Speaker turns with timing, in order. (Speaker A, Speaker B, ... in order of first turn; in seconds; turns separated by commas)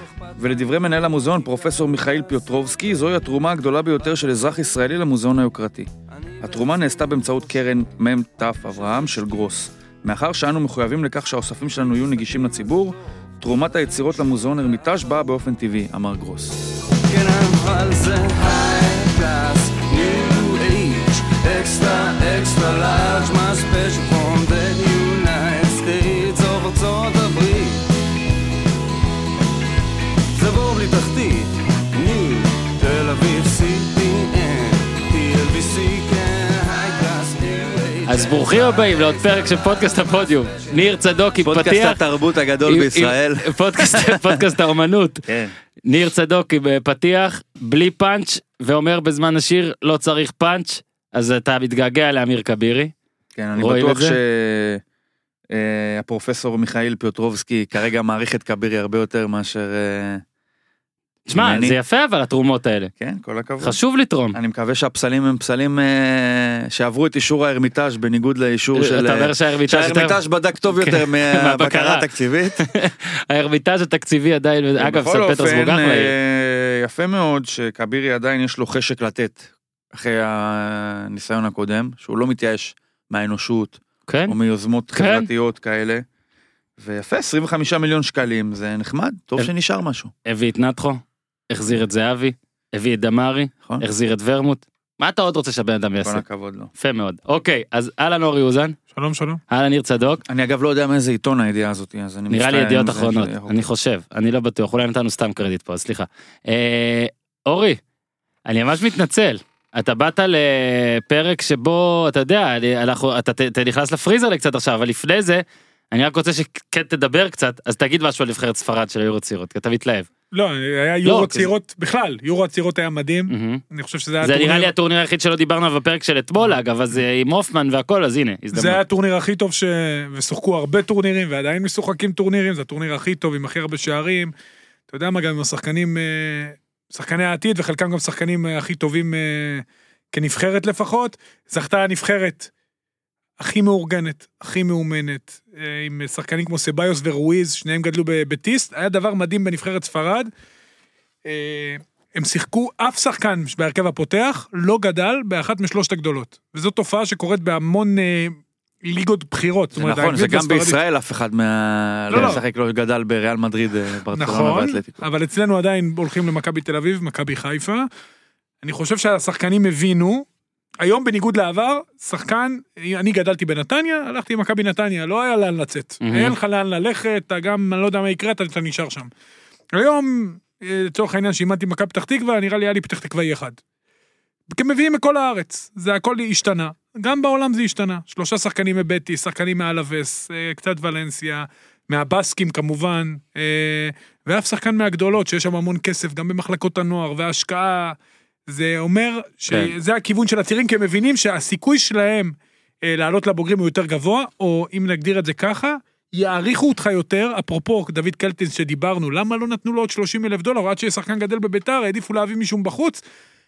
Speaker A: 0.4-5.9, Speaker A: 6.4-16.6, Speaker B: 16.9-27.9, Speaker B: 30.3-40.7, Speaker C: 38.1-42.0, Speaker A: 41.4-44.4, Speaker C: 42.7-45.3, Speaker A: 45.3-45.5, Speaker C: 45.9-52.9, Speaker A: 53.4-54.8, Speaker C: 53.6-54.2, Speaker A: 55.5-60.2, Speaker C: 61.3-62.9, Speaker A: 61.4-61.8, Speaker A: 63.0-63.8, Speaker C: 63.6-64.4, Speaker A: 64.3-72.7, Speaker C: 68.8-70.2, Speaker C: 70.8-72.0, Speaker C: 72.6-76.1, Speaker A: 74.8-86.0, Speaker C: 84.1-84.3, Speaker C: 85.0-85.3, Speaker A: 86.8-90.1, Speaker C: 90.3-96.2, Speaker A: 96.0-96.7, Speaker C: 96.8-98.8, Speaker D: 99.0-99.4, Speaker C: 99.5-100.2, Speaker A: 100.2-103.6, Speaker C: 102.3-107.8, Speaker C: 108.5-120.1, Speaker D: 120.3-124.7, Speaker C: 121.0-121.5, Speaker C: 123.3-123.6, Speaker C: 124.2-128.8, Speaker D: 128.5-134.3, Speaker D: 134.9-142.5, Speaker D: 143.4-150.3, Speaker D: 151.2-160.8, Speaker A: 159.8-165.0, Speaker D: 162.1-162.4, Speaker D: 164.1-167.9, Speaker D: 168.6-170.3, Speaker D: 170.8-179.1, Speaker C: 176.0-176.3, Speaker D: 179.8-183.6, Speaker D: 184.5-213.0